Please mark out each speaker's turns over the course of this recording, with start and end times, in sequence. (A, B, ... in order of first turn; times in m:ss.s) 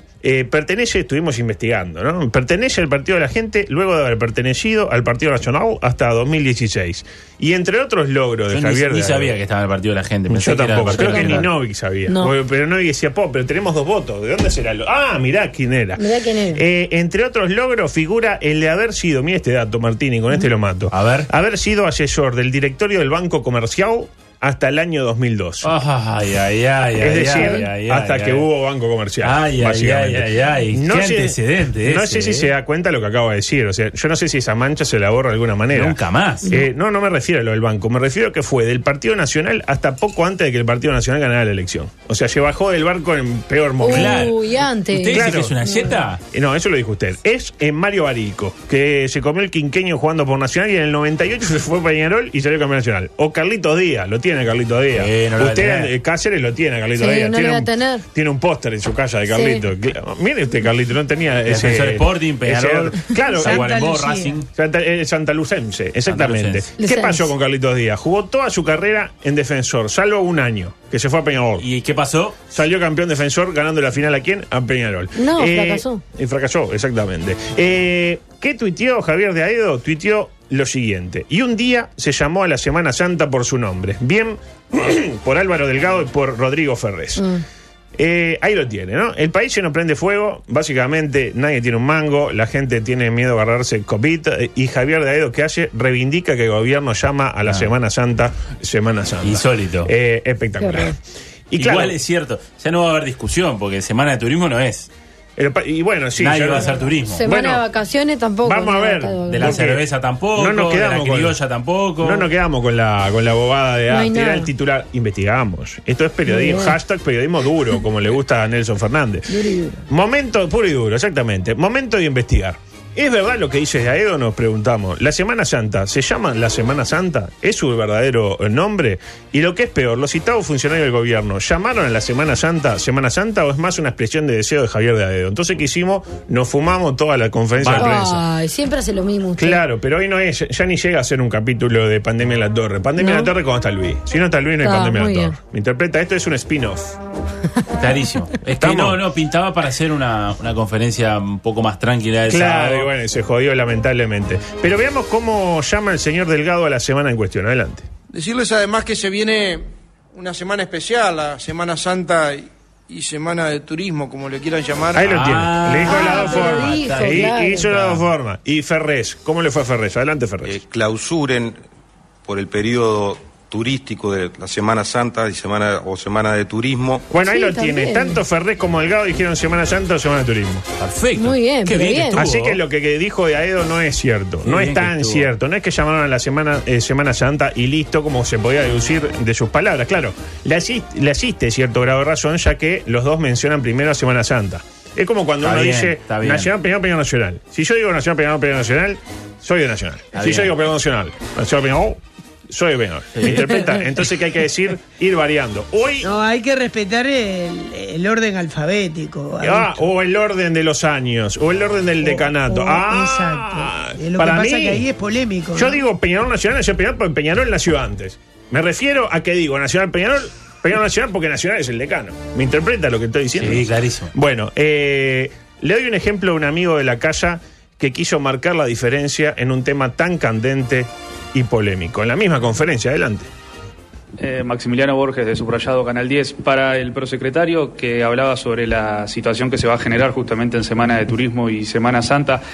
0:00.2-0:09.3 A
0:08.5-0:11.5 B
0:10.3-0:16.0 A
0:10.9-0:11.4 C
0:16.0-0:16.6 C
0:16.5-0:25.7 A
0:20.9-0:21.3 B
0:25.6-0:28.4 B
0:27.0-0:44.2 A
0:27.4-0:27.6 C
0:29.2-0:32.5 B
0:35.7-0:36.5 B
0:43.8-0:46.0 C
0:43.9-0:44.4 B
0:44.9-0:46.2 B
0:45.1-0:45.5 A
0:46.3-1:03.7 A
0:54.9-0:55.9 B
0:57.0-0:58.0 C
0:59.3-0:59.6 C
1:01.5-1:04.4 B
1:03.4-1:04.4 D
1:04.5-1:11.6 A
1:06.0-1:06.7 B
1:06.8-1:07.3 C
1:11.6-1:12.5 B
1:12.5-1:27.2 A
1:15.2-1:16.0 C
1:28.0-1:40.9 A
1:39.2-1:39.9 B
1:40.6-1:40.9 C
1:41.5-1:42.0 A
1:41.5-1:44.9 B
1:45.4-1:47.6 A
1:46.2-1:47.2 B
1:47.2-1:49.5 C
1:48.4-1:49.8 A
1:49.3-1:52.3 B
1:50.3-1:51.4 A
1:52.0-1:59.3 A
1:53.9-1:54.5 C
1:56.3-1:56.8 C
1:59.3-1:59.8 C
1:59.9-2:18.2 A
2:17.6-2:18.0 B
2:17.6-2:19.6 C
2:19.4-2:27.0 A
2:23.0-2:23.3 C
2:24.6-2:25.3 C
2:27.8-2:32.9 B
2:28.6-2:29.0 A
2:32.3-2:37.8 A
2:38.1-2:45.2 E
2:44.9-2:50.6 A
2:45.0-2:48.0 B
2:45.8-2:47.7 C
2:50.4-2:51.6 F
2:52.2-2:57.0 F
2:57.1-3:00.6 A
2:57.2-2:58.2 C
3:00.8-3:02.6 B
3:01.2-3:02.2 C
3:02.1-3:26.1 A
3:04.4-3:05.3 B
3:15.4-3:16.5 B
3:20.1-3:20.5 B
3:23.1-3:23.7 B
3:26.0-3:29.8 D
3:29.4-3:34.8 A
3:32.0-3:35.8 D
3:35.5-3:53.3 A
3:43.3-3:44.1 B
3:54.2-4:02.4 G